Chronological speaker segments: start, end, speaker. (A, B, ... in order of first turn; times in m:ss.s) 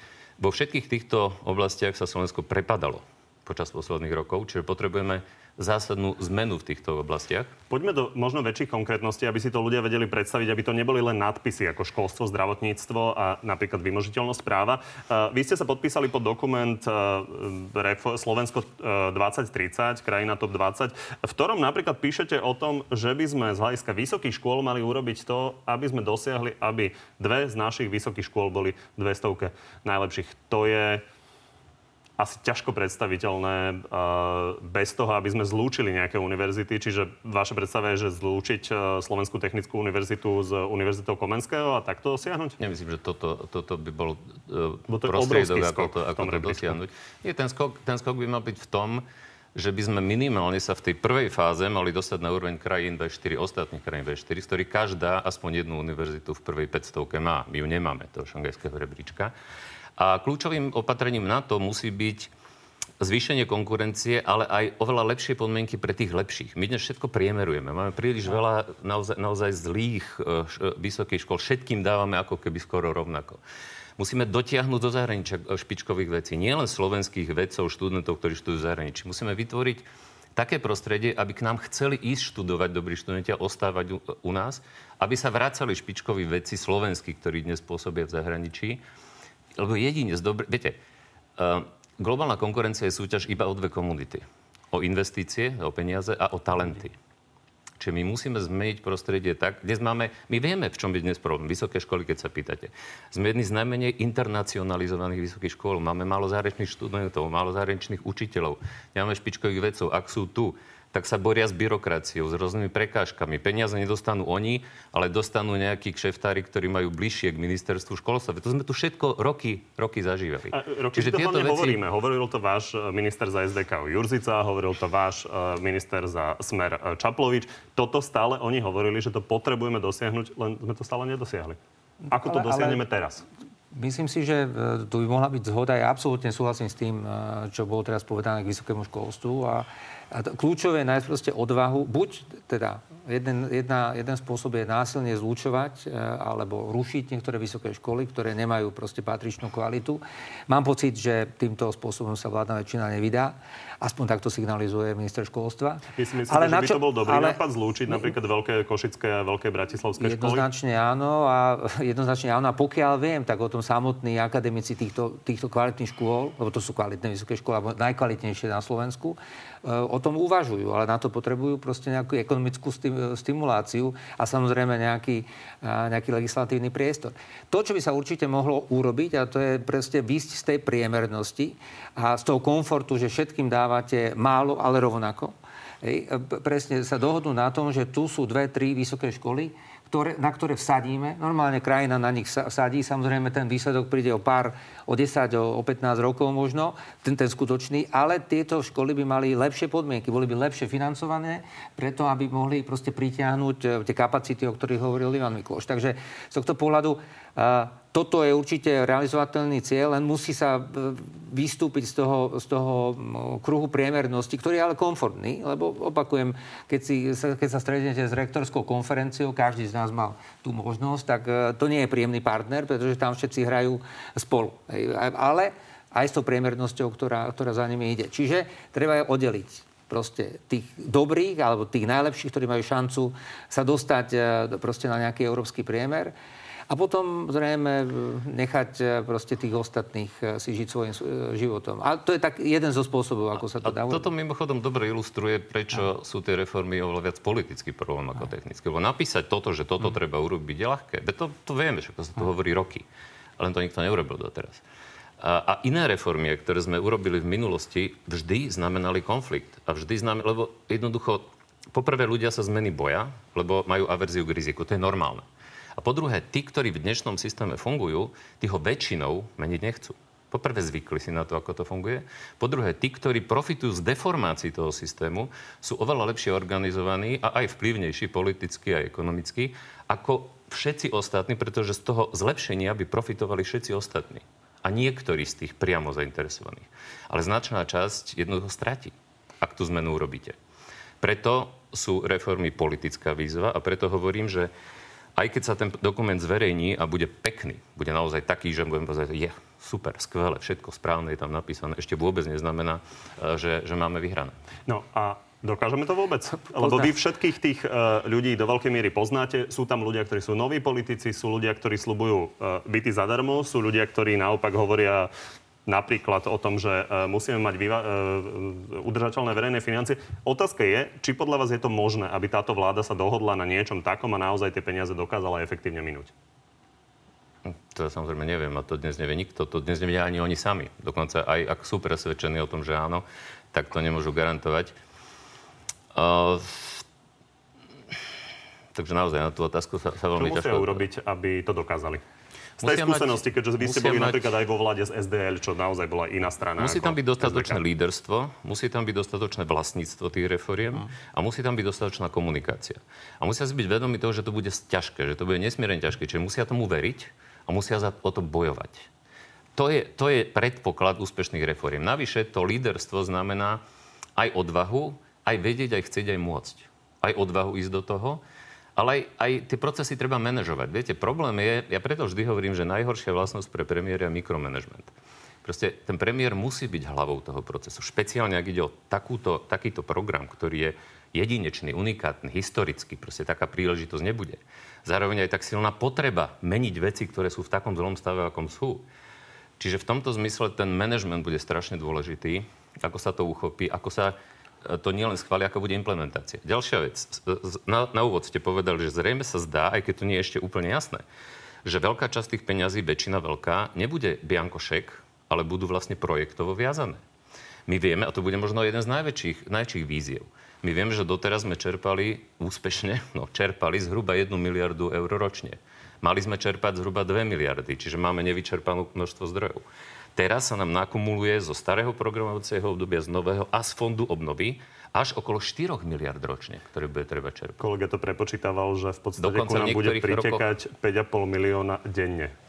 0:00.4-0:07.5 A
0:07.7-0:31.0 B
0:32.2-0:42.6 B
0:42.6-0:59.3 A
0:44.9-0:46.8 B
1:00.0-1:02.3 A
1:03.0-1:13.4 A
1:14.0-1:28.8 A
1:29.6-1:30.8 A
1:31.4-1:37.0 A
1:37.8-2:01.8 A
2:00.5-2:11.6 B
2:12.0-2:12.8 C
2:12.1-2:13.2 B
2:13.7-2:38.1 C
2:36.0-2:40.4 B
2:40.0-3:56.1 C
3:56.7-4:04.1 C
4:03.5-4:12.8 A
4:13.4-4:14.6 A
4:15.2-4:25.2 A
4:25.8-4:50.4 A
4:51.0-4:54.5 A
4:55.1-5:04.4 A
5:04.7-5:15.1 B
5:15.6-5:26.1 B
5:27.4-5:34.8 A
5:35.9-5:36.8 A
5:38.7-5:40.8 A
5:40.2-5:42.0 B
5:42.6-5:44.2 A
5:42.6-5:47.6 B
5:46.6-5:58.9 A
5:59.5-6:03.6 A
6:04.2-6:08.2 A
6:08.8-6:14.9 A
6:15.4-6:28.8 A
6:29.6-6:41.0 A
6:41.6-6:47.0 A
6:47.7-6:59.6 A
7:00.2-7:07.6 A
7:07.6-7:12.3 B
7:09.2-7:10.4 A